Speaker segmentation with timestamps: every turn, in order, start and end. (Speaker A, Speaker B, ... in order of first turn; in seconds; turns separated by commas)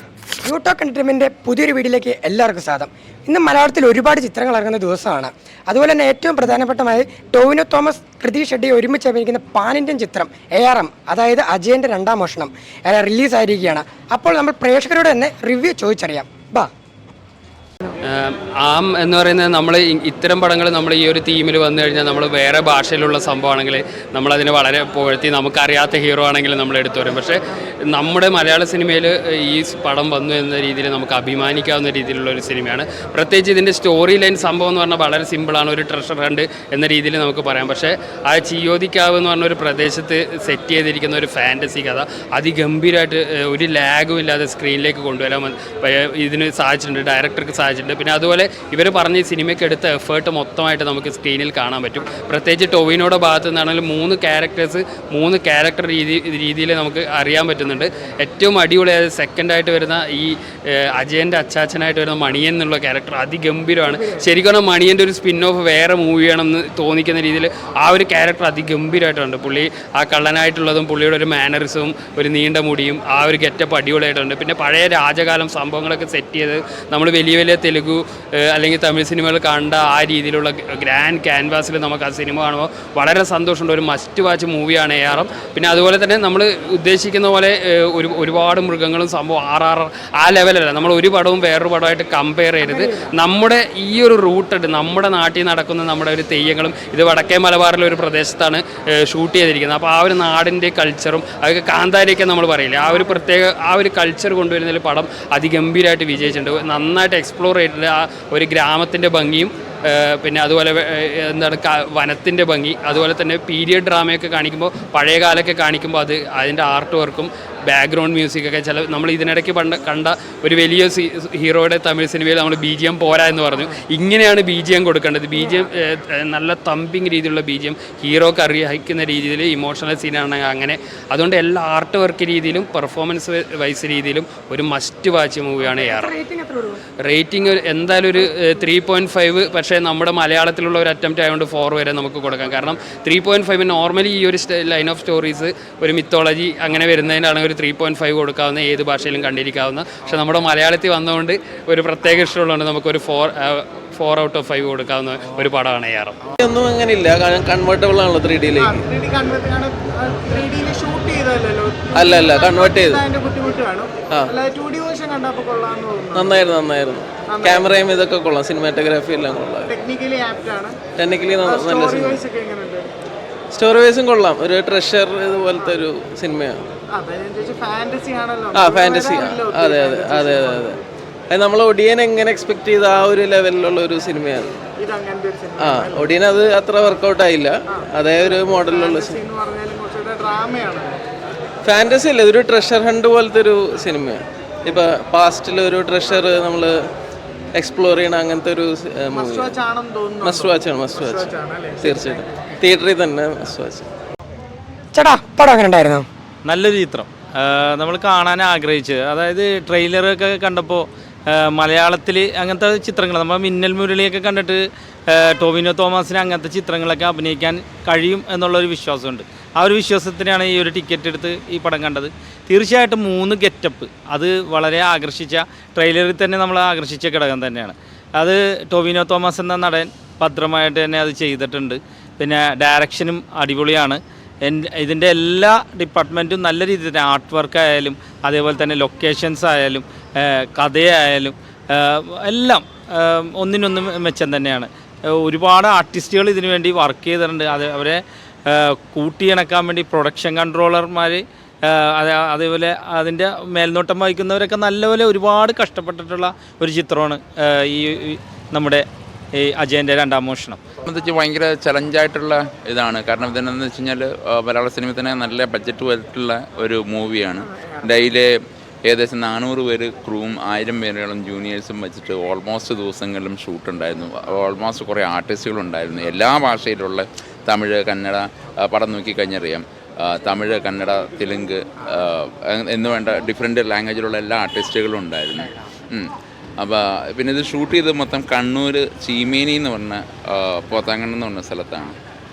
Speaker A: 0.4-16.7, Speaker B: 18.1-136.1, Speaker A: 135.7-136.8, Speaker B: 137.0-156.2, Speaker C: 156.4-158.9, Speaker D: 158.6-166.4, Speaker C: 161.9-163.1, Speaker C: 166.2-169.7, Speaker D: 167.3-167.7, Speaker D: 169.7-170.8, Speaker C: 171.0-172.2, Speaker D: 171.4-172.9, Speaker C: 173.5-176.7, Speaker D: 176.9-180.8, Speaker C: 178.5-184.6, Speaker D: 184.8-186.2, Speaker C: 185.6-189.2, Speaker D: 188.6-191.0, Speaker C: 191.7-196.8, Speaker C: 197.6-199.6, Speaker D: 199.1-202.3, Speaker C: 200.2-203.9, Speaker A: 204.9-206.1, Speaker E: 206.5-260.6, Speaker F: 260.9-292.0